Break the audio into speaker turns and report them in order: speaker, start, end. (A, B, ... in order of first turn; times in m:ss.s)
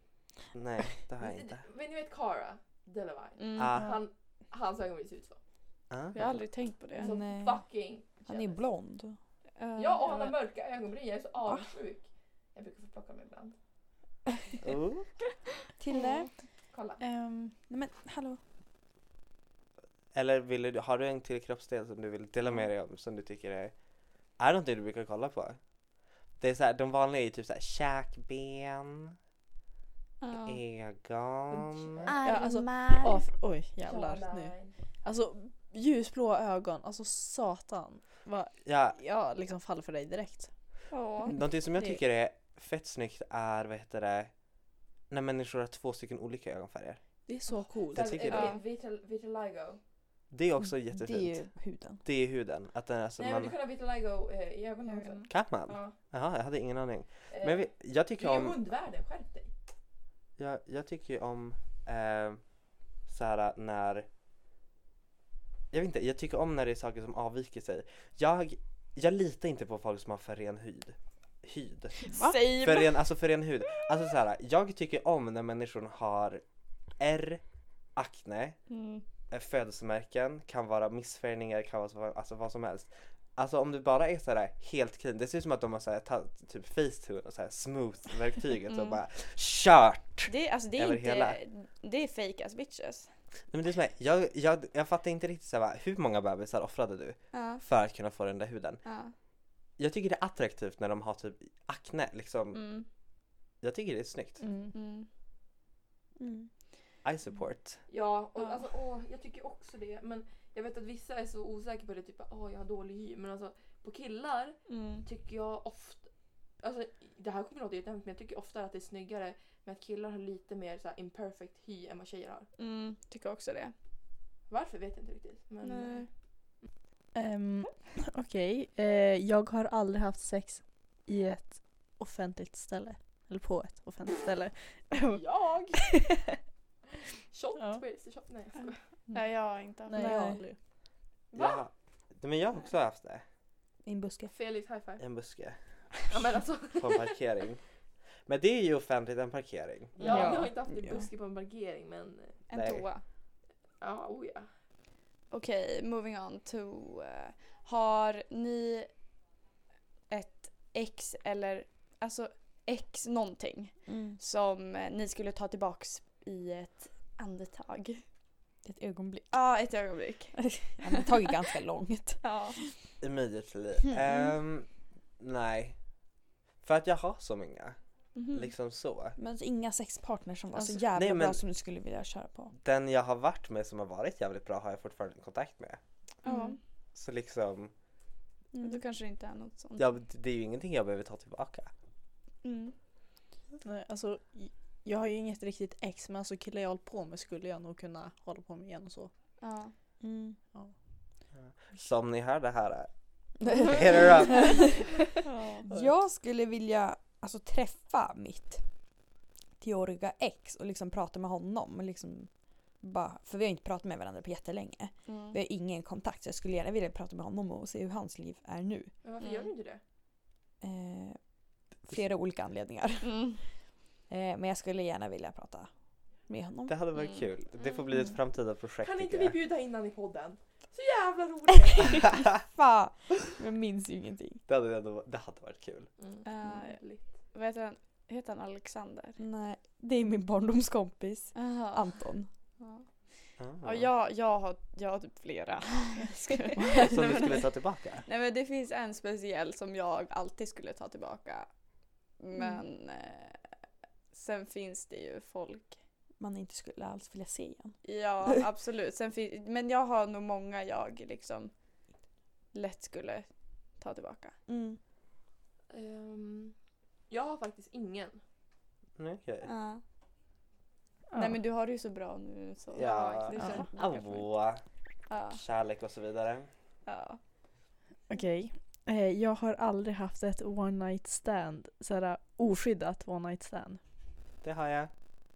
0:00.5-0:01.6 A
0:01.2-0:05.4 B
0:03.4-0:03.8 C
0:03.6-0:04.0 A
0:03.8-0:04.0 D
0:05.9-0:06.4 A
0:06.1-0:07.2 C
0:07.0-0:08.6 B
0:07.0-0:07.6 E
0:08.2-0:09.2 E
0:09.6-0:10.4 C
0:09.8-0:13.6 B
0:14.6-0:15.1 A
0:15.8-0:16.3 E
0:15.9-0:16.3 C
0:16.7-0:17.0 B
0:17.0-0:17.6 D
0:17.7-0:18.4 E
0:20.1-0:23.7 A
0:24.4-0:25.6 A
0:26.4-0:29.2 A
0:30.2-0:30.6 C
0:30.5-0:32.1 A
0:31.5-0:32.4 B
0:32.1-0:33.2 C
0:32.2-0:40.5 D
0:33.8-0:34.8 B
0:38.6-0:39.0 A
0:40.9-0:41.3 C
0:41.3-0:44.3 A
0:41.8-0:42.0 D
0:45.1-0:47.0 A
0:47.3-0:48.2 D
0:47.9-0:49.8 B
0:47.9-0:48.6 A
0:48.3-0:48.6 C
0:50.3-0:51.5 A
0:50.6-0:52.0 E
0:52.0-0:53.6 A
0:53.2-0:56.0 B
0:55.3-0:58.6 A
0:57.3-0:59.5 B
1:00.4-1:02.4 A
1:03.1-1:04.1 A
1:05.7-1:16.4 A
1:12.1-1:13.0 C
1:12.1-1:12.4 E
1:17.0-1:17.4 A
1:18.0-1:18.6 A
1:18.7-1:19.0 C
1:19.3-1:31.4 A
1:28.7-1:29.0 C
1:30.3-1:33.1 C
1:33.5-1:38.8 A
1:37.3-1:37.6 C
1:38.8-1:39.1 C
1:39.8-1:42.6 A
1:42.5-1:42.9 C
1:43.6-1:44.4 A
1:44.4-1:44.7 D
1:44.7-1:45.1 C
1:46.2-1:46.5 E
1:47.0-1:47.8 A
1:47.9-1:56.1 B
1:54.7-1:55.1 C
1:56.6-2:02.5 B
2:02.6-2:03.7 C
2:04.5-2:06.0 B
2:05.6-2:06.1 C
2:07.1-2:15.2 D
2:15.1-2:15.8 B
2:15.7-2:16.4 D
2:17.3-2:18.8 B
2:17.6-2:17.8 D
2:19.1-2:20.4 C
2:19.9-2:20.6 D
2:20.0-2:20.4 E
2:21.3-2:21.6 B
2:21.3-2:23.2 A
2:23.8-2:24.3 E
2:24.3-2:25.0 B
2:25.0-2:25.6 A
2:26.1-2:27.2 B
2:26.8-2:27.6 A
2:28.3-2:30.1 A
2:30.0-2:32.4 B
2:30.0-2:30.4 D
2:30.1-2:31.1 E
2:32.5-2:33.0 C
2:32.5-2:32.9 A
2:33.8-2:34.5 B
2:35.3-2:38.9 C
2:40.1-2:48.0 C
2:43.9-2:44.2 E
2:48.6-2:49.3 E
2:49.3-2:51.2 C
2:50.4-2:52.7 E
2:52.2-2:52.6 C
2:53.0-2:54.7 A
2:55.2-2:55.8 A
2:56.6-2:57.8 A
2:58.2-2:58.5 C
2:58.3-2:59.2 A
2:59.2-3:02.5 E
3:00.9-3:01.4 A
3:02.6-3:05.8 A
3:06.2-3:06.6 C
3:06.3-3:06.6 E
3:07.0-3:07.7 A
3:08.5-3:08.8 E
3:08.6-3:09.9 C
3:09.8-3:11.7 A
3:12.4-3:12.8 C
3:13.6-3:19.1 D
3:19.4-3:19.7 C
3:20.0-3:20.4 E
3:21.4-3:22.9 A
3:23.4-3:24.8 A
3:23.4-3:24.7 E
3:25.3-3:25.7 C
3:25.3-3:25.9 D
3:25.6-3:28.6 E
3:29.6-3:38.9 E
3:35.1-3:35.4 C
3:39.0-3:39.8 B
3:40.6-3:41.2 E
3:41.8-3:43.3 E
3:43.0-3:43.4 C
3:44.1-3:45.7 E
3:46.3-3:46.8 E
3:46.7-3:49.4 A
3:48.8-3:52.3 B
3:52.4-3:54.4 E
3:54.5-3:55.9 A
3:56.0-3:57.0 B
3:56.2-3:59.2 C
3:59.2-4:02.3 E
4:01.4-4:02.1 C
4:02.6-4:02.9 C
4:03.4-4:03.9 A
4:03.6-4:07.4 C
4:06.8-4:08.1 A
4:08.1-4:11.5 C
4:12.2-4:13.5 C
4:14.1-4:15.8 C
4:16.2-4:18.4 E
4:17.8-4:21.5 C
4:22.5-4:23.3 C
4:23.8-4:24.4 C
4:24.5-4:24.8 E
4:25.7-4:26.6 B
4:27.1-4:28.2 B
4:29.0-4:29.5 A
4:29.4-4:29.8 C
4:31.1-4:31.4 D
4:31.2-4:34.3 C
4:32.8-4:34.6 A
4:33.4-4:33.7 D
4:35.1-4:35.4 C
4:35.3-4:36.5 A
4:36.9-4:37.2 C
4:38.1-4:43.8 D
4:44.4-4:44.9 A